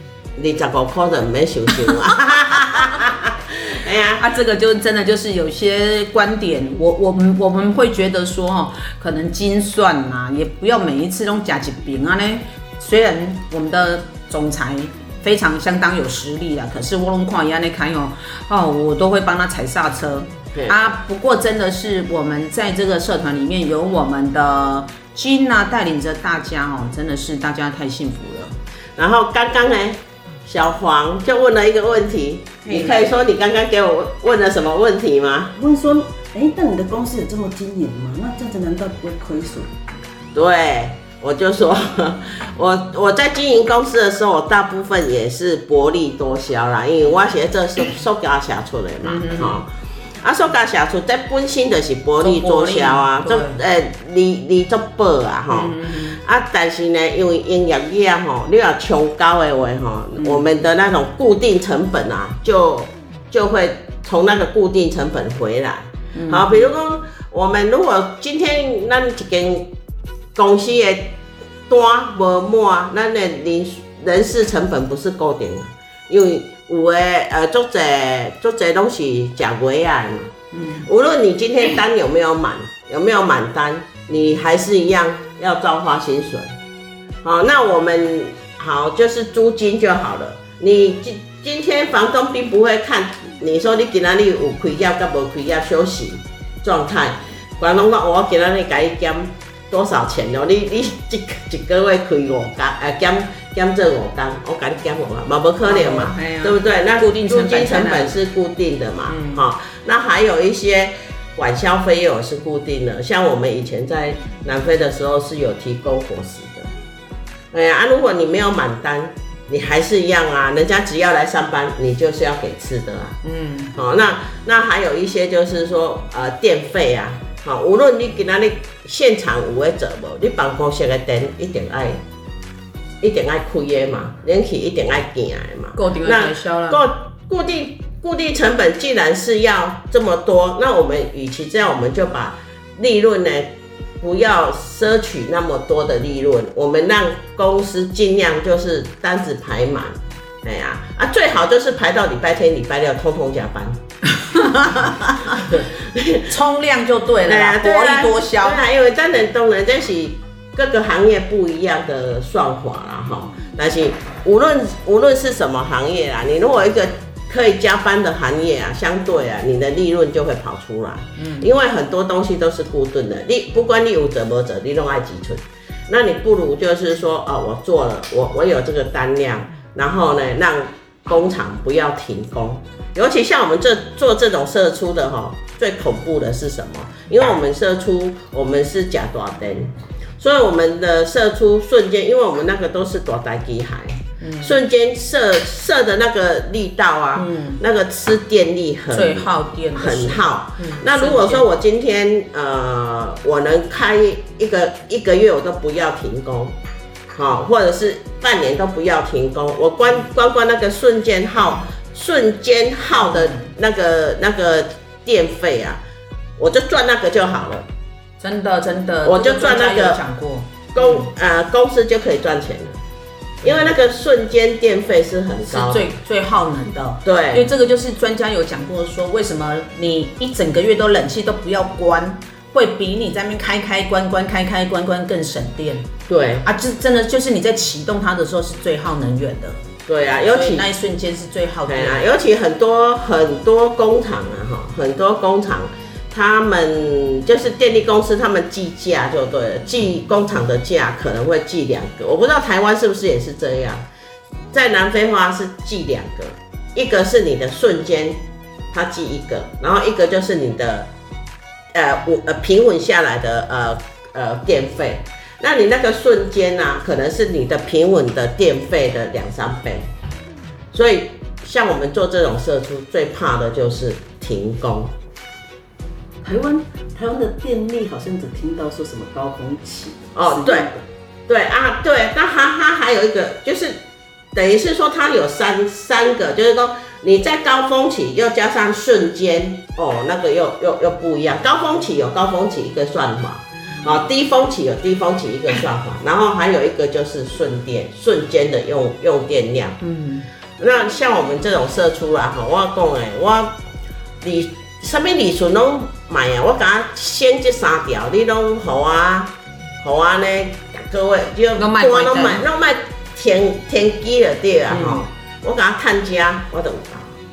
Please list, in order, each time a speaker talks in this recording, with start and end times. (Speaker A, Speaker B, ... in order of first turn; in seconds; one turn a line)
Speaker A: 0.4-4.2
Speaker B: 4.2-28.6
Speaker A: 20.5-20.8
Speaker A: 29.0-35.5
Speaker B: 32.6-33.0
Speaker C: 35.6-39.7
Speaker A: 40.4-69.7
Speaker B: 49.0-49.6
Speaker B: 52.2-53.6
Speaker B: 55.5-56.2
Speaker B: 60.2-60.4
Speaker B: 66.2-66.7
Speaker A: 70.3-71.2
Speaker A: 71.7-86.6
Speaker B: 80.5-80.9
Speaker A: 87.2-116.7
Speaker B: 105.7-108.2
Speaker B: 109.1-109.4
Speaker A: 117.5-123.2
Speaker B: 123.2-123.7
Speaker A: 123.7-132.0
Speaker A: 133.0-153.8
Speaker B: 135.8-136.9
Speaker B: 154.1-155.4
Speaker A: 155.3-156.3
Speaker B: 156.3-158.6
Speaker A: 157.3-206.6
Speaker B: 171.2-171.5
Speaker B: 194.2-194.6
Speaker B: 197.2-197.6
Speaker B: 198.9-201.4
Speaker A: 207.1-215.8
Speaker B: 213.1-213.5
Speaker A: 216.4-217.7
Speaker B: 218.2-221.1
Speaker A: 219.0-220.0
Speaker A: 220.8-222.8
Speaker A: 223.4-225.9
Speaker B: 225.5-235.9
Speaker A: 227.0-227.5
Speaker A: 236.1-236.5
Speaker B: 236.4-239.6
Speaker A: 239.9-240.7
Speaker B: 240.3-242.0
Speaker A: 241.7-253.8
Speaker A: 254.5-258.2
Speaker A: 258.7-260.9
Speaker A: 261.7-269.9
Speaker A: 270.7-274.9
Speaker C: 276.2-280.9
Speaker A: 280.1-280.7
Speaker A: 281.3-283.8
Speaker A: 284.3-299.8
Speaker B: 299.8-300.3
Speaker A: 300.6-303.6
Speaker A: 304.2-317.2
Speaker B: 311.6-312.4
Speaker B: 314.7-315.0